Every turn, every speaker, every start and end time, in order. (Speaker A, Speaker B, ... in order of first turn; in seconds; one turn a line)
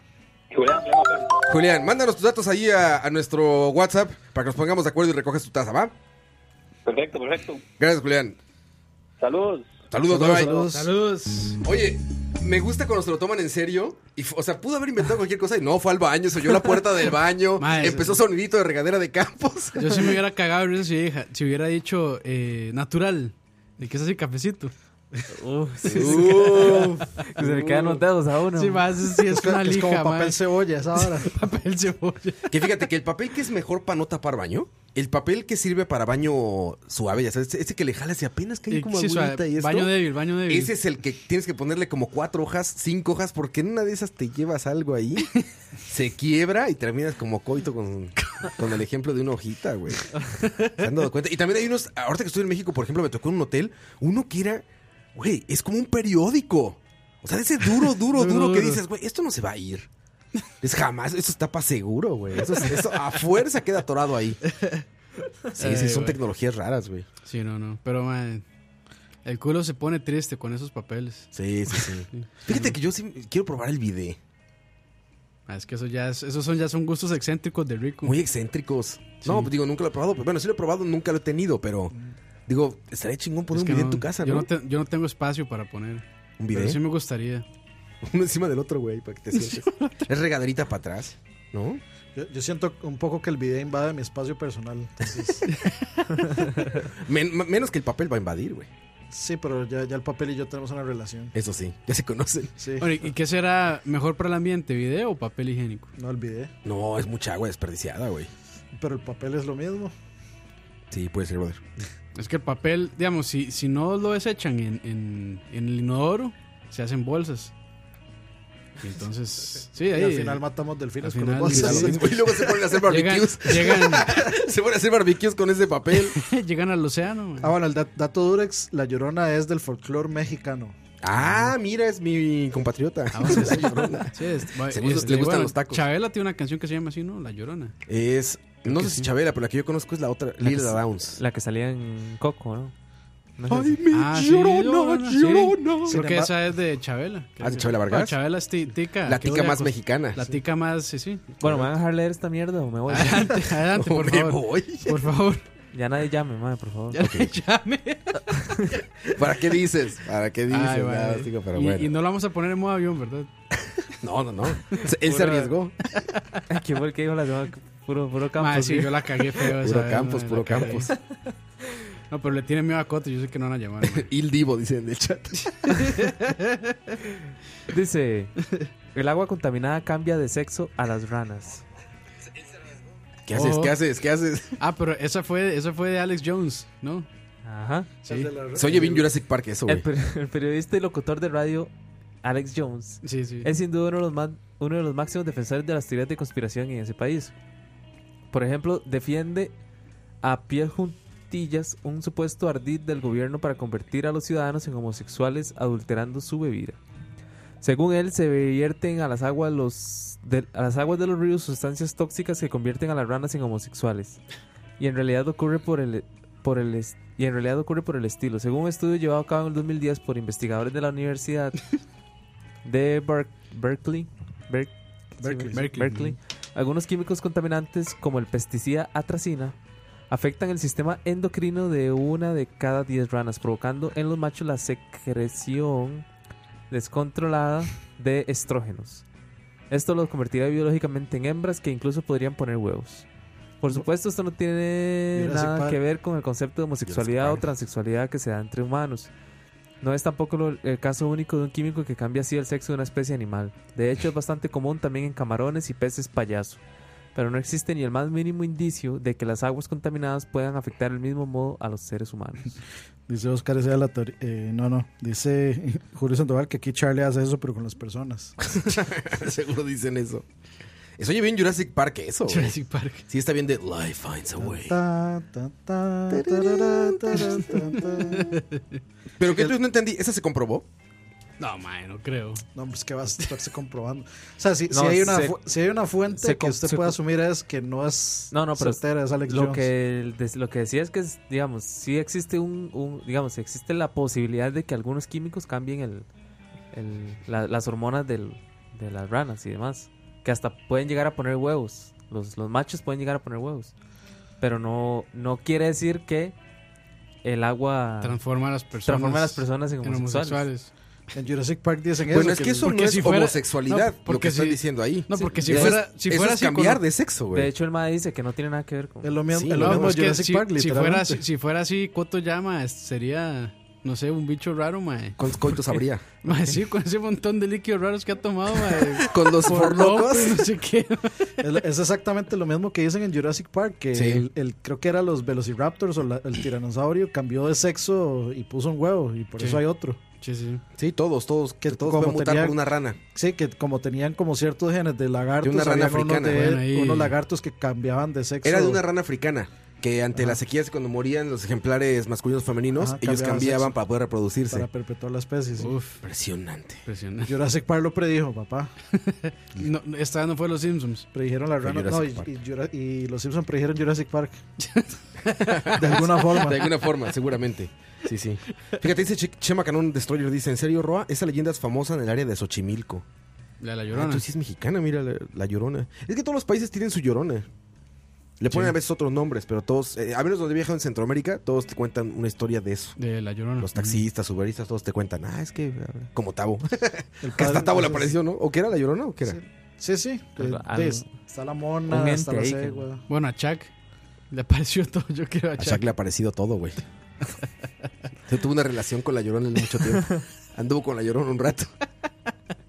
Speaker A: 0.5-1.4
Speaker B: 1.5-5.9
Speaker A: 6.8-7.6
Speaker B: 7.8-8.4
Speaker A: 9.2-9.7
Speaker B: 9.9-10.5
Speaker C: 10.1-10.9
Speaker D: 10.4-11.6
Speaker B: 11.6-20.2
Speaker D: 17.6-18.2
Speaker D: 19.8-24.7
Speaker E: 25.4-28.9
Speaker B: 25.8-27.0
Speaker D: 26.0-26.8
Speaker C: 27.4-27.8
Speaker D: 28.6-30.4
Speaker C: 29.2-31.3
Speaker D: 31.0-32.5
Speaker B: 32.5-39.9
Speaker D: 38.7-40.8
Speaker B: 40.5-59.9
Speaker D: 57.9-58.8
Speaker B: 60.6-64.4
Speaker D: 64.5-64.8
Speaker D: 65.6-66.2
Speaker B: 65.6-67.0
Speaker D: 67.2-68.4
Speaker D: 69.2-72.7
Speaker B: 71.3-74.2
Speaker D: 75.5-78.2
Speaker B: 78.0-81.9
Speaker D: 79.2-79.5
Speaker B: 82.5-84.5
Speaker D: 83.5-87.4
Speaker B: 86.4-86.8
Speaker B: 88.0-91.8
Speaker D: 89.4-90.0
Speaker C: 92.1-95.5
Speaker D: 95.5-96.2
Speaker B: 96.9-98.7
Speaker C: 99.1-101.3
Speaker B: 101.3-102.5
Speaker C: 102.6-102.9
Speaker D: 102.8-105.9
Speaker C: 106.0-106.5
Speaker B: 106.6-108.3
Speaker C: 108.8-109.9
Speaker B: 110.9-111.6
Speaker D: 112.1-117.5
Speaker D: 118.8-120.4
Speaker C: 119.9-122.5
Speaker D: 121.0-122.0
Speaker B: 121.5-126.2
Speaker D: 122.8-124.1
Speaker D: 126.1-127.5
Speaker C: 127.4-130.8
Speaker B: 131.0-135.8
Speaker D: 131.2-131.5
Speaker D: 133.1-137.7
Speaker B: 137.9-141.2
Speaker D: 138.7-139.1
Speaker E: 140.4-142.7
Speaker E: 143.4-143.8
Speaker B: 143.5-146.0
Speaker D: 143.9-151.3
Speaker C: 145.9-146.3
Speaker B: 147.4-148.2
Speaker B: 149.1-150.2
Speaker E: 151.4-153.5
Speaker D: 152.9-155.4
Speaker B: 153.7-154.9
Speaker E: 155.7-157.1
Speaker D: 156.9-158.4
Speaker B: 157.0-157.3
Speaker B: 159.1-161.9
Speaker D: 160.5-163.3
Speaker B: 163.9-165.7
Speaker E: 164.9-165.6
Speaker D: 165.9-166.4
Speaker E: 166.5-169.0
Speaker D: 168.4-170.9
Speaker B: 169.5-170.9
Speaker D: 172.1-174.1
Speaker B: 173.8-175.9
Speaker D: 175.8-176.7
Speaker E: 177.7-178.3
Speaker E: 178.9-181.6
Speaker B: 183.3-184.6
Speaker D: 183.3-183.8
Speaker D: 184.6-187.1
Speaker E: 187.4-187.9
Speaker C: 188.0-189.1
Speaker B: 188.6-189.8
Speaker E: 189.7-191.7
Speaker E: 192.2-197.3
Speaker D: 193.0-193.5
Speaker E: 198.3-199.5
Speaker E: 200.2-206.8
Speaker E: 207.6-214.2
Speaker E: 214.8-221.6
Speaker E: 222.6-229.5
Speaker C: 225.2-226.0
Speaker D: 225.5-226.1
Speaker E: 230.1-236.0
Speaker E: 236.7-239.0
Speaker E: 239.7-243.1
Speaker E: 243.6-249.1
Speaker C: 245.1-245.8
Speaker B: 246.8-247.4
Speaker E: 249.8-256.6
Speaker E: 257.1-262.5
Speaker C: 263.1-268.4
Speaker B: 268.4-270.2
Speaker B: 271.0-272.5
Speaker D: 272.3-273.0
Speaker B: 273.1-274.8
Speaker C: 274.4-278.4
Speaker B: 276.1-277.8
Speaker D: 278.0-278.8
Speaker B: 279.2-280.6
Speaker D: 281.4-282.4
Speaker C: 282.5-289.7
Speaker E: 284.7-285.4
Speaker E: 286.1-287.0
Speaker E: 288.3-296.1
Speaker E: 296.7-303.7
Speaker E: 304.4-306.3
Speaker E: 307.2-308.2
Speaker D: 308.0-310.7
Speaker E: 308.9-310.4
Speaker C: 311.1-312.7
Speaker B: 312.1-317.5
Speaker D: 312.3-316.8
Speaker E: 315.4-315.8
Speaker E: 317.3-319.2
Speaker C: 319.0-321.2
Speaker B: 319.3-320.0
Speaker D: 319.6-331.4
Speaker B: 325.2-326.0
Speaker B: 328.9-330.4
Speaker C: 331.4-340.0
Speaker B: 333.9-334.2
Speaker D: 339.4-340.6
Speaker B: 340.8-343.0
Speaker C: 341.6-342.6
Speaker C: 343.1-348.8
Speaker B: 345.4-346.6
Speaker D: 346.3-347.1
Speaker B: 348.4-354.7
Speaker C: 352.8-353.7
Speaker C: 354.5-355.7
Speaker D: 355.6-356.0
Speaker B: 356.0-356.8
Speaker D: 356.8-357.3
Speaker C: 357.2-358.7
Speaker D: 358.9-361.1
Speaker C: 361.1-364.4
Speaker B: 361.6-362.3
Speaker D: 364.6-366.5
Speaker B: 365.5-373.0
Speaker C: 365.7-366.7
Speaker D: 373.6-374.2
Speaker B: 373.9-377.4
Speaker B: 378.4-382.9
Speaker D: 383.0-384.0
Speaker B: 383.6-389.4
Speaker C: 387.2-388.1
Speaker C: 389.2-393.0
Speaker E: 390.4-391.2
Speaker E: 391.9-392.8
Speaker D: 393.1-393.7
Speaker D: 394.3-395.9
Speaker B: 395.6-396.8
Speaker B: 398.3-401.7